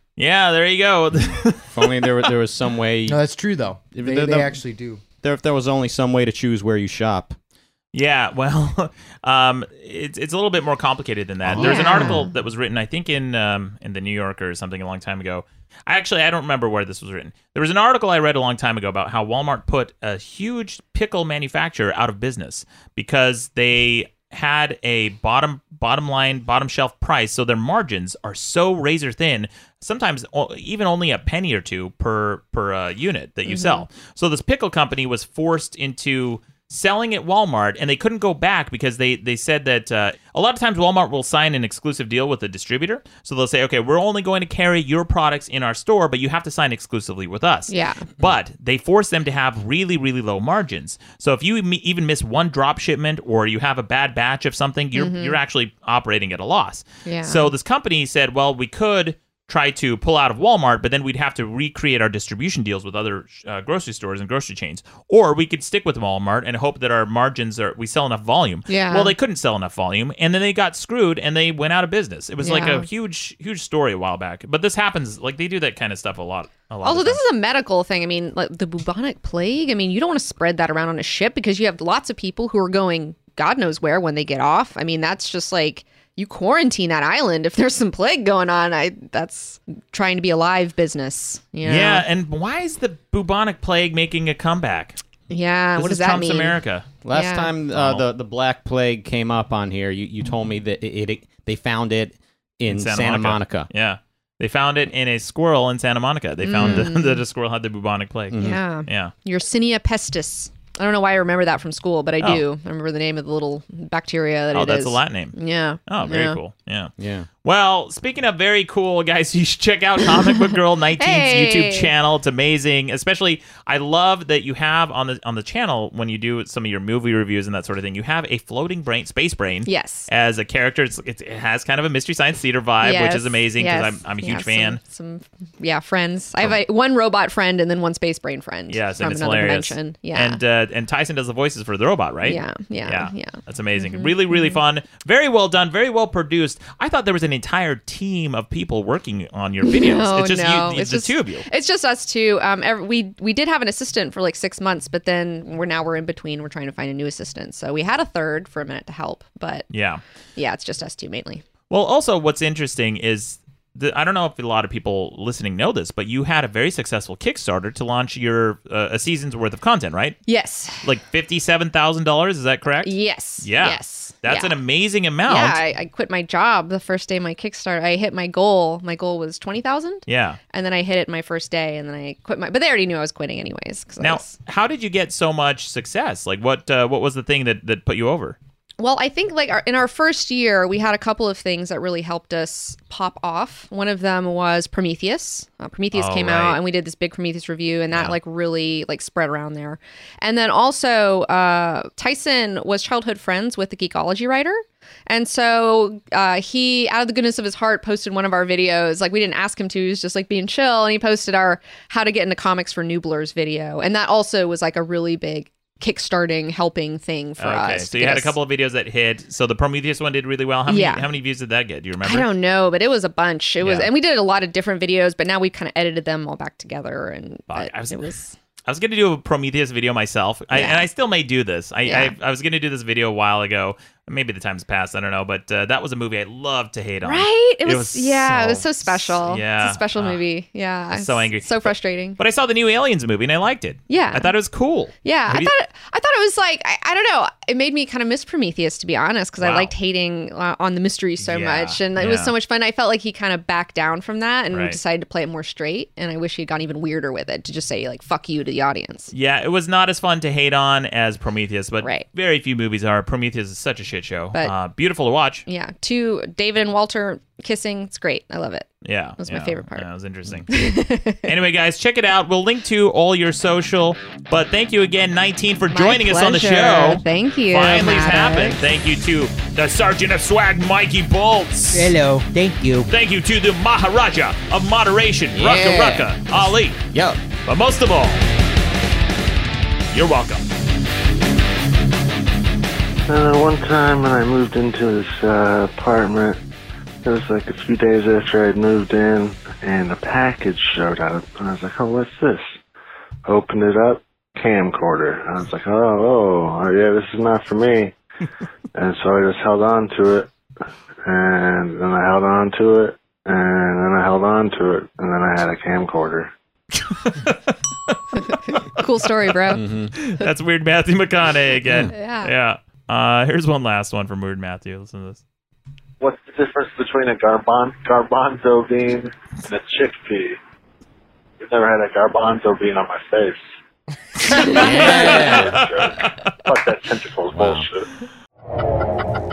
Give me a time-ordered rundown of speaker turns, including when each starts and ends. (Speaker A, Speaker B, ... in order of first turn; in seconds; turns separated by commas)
Speaker A: 0.2-2.3, Speaker B: 1.2-3.2, Speaker C: 3.1-5.0, Speaker B: 4.0-4.6, Speaker B: 5.2-7.4, Speaker A: 7.9-77.2, Speaker B: 11.4-12.2, Speaker D: 11.6-12.3, Speaker D: 33.5-33.9, Speaker D: 47.7-48.1, Speaker D: 55.0-55.4, Speaker D: 57.0-57.5, Speaker D: 68.7-69.1, Speaker D: 72.4-72.9, Speaker D: 76.8-92.0, Speaker A: 91.6-95.0, Speaker D: 95.3-96.6, Speaker A: 95.8-96.9, Speaker B: 97.0-103.7, Speaker D: 97.1-97.5, Speaker A: 97.7-98.0, Speaker A: 102.7-109.1, Speaker D: 106.4-107.2, Speaker B: 106.6-106.9, Speaker B: 108.3-108.6, Speaker D: 108.4-116.4, Speaker A: 114.5-116.9, Speaker B: 117.0-117.3, Speaker A: 117.4-134.8, Speaker D: 121.0-121.9, Speaker D: 129.7-130.1, Speaker D: 132.8-140.4, Speaker A: 138.7-151.5, Speaker D: 142.2-144.6, Speaker D: 149.6-159.7, Speaker A: 159.7-160.0, Speaker D: 160.4-161.4, Speaker A: 161.7-170.2, Speaker D: 170.3-170.8, Speaker A: 170.8-175.6, Speaker D: 172.8-174.6, Speaker D: 175.3-184.3, Speaker A: 180.1-180.4, Speaker A: 184.0-188.4, Speaker D: 188.8-218.3, Speaker A: 195.9-196.6, Speaker A: 217.4-222.3, Speaker D: 220.7-221.1, Speaker D: 222.0-228.4, Speaker A: 223.6-223.9, Speaker A: 227.5-228.1, Speaker A: 228.7-240.2, Speaker D: 230.5-230.9, Speaker D: 231.8-232.1, Speaker D: 237.0-242.2, Speaker A: 240.9-245.5, Speaker D: 243.9-244.3, Speaker D: 245.0-259.1, Speaker A: 249.4-249.7, Speaker A: 251.2-252.3, Speaker A: 254.5-254.8, Speaker A: 259.1-265.4, Speaker D: 265.5-269.9, Speaker A: 268.8-270.5, Speaker D: 270.5-271.3, Speaker A: 271.2-282.0, Speaker D: 275.7-278.6, Speaker B: 281.7-282.9, Speaker A: 282.9-286.8, Speaker B: 285.3-286.2, Speaker B: 286.9-287.2, Speaker A: 287.5-288.2, Speaker A: 289.9-290.5, Speaker E: 293.1-296.4, Speaker E: 297.1-302.6, Speaker E: 303.2-308.0, Speaker E: 308.7-310.3, Speaker E: 311.1-316.3, Speaker A: 316.7-318.0, Speaker D: 318.2-319.6, Speaker B: 319.5-319.9, Speaker A: 319.9-325.2, Speaker B: 321.7-321.9, Speaker D: 321.9-322.3, Speaker E: 326.0-330.4, Speaker E: 331.4-333.4, Speaker A: 334.4-336.3, Speaker E: 334.5-337.9, Speaker B: 334.5-335.6, Speaker B: 337.3-337.7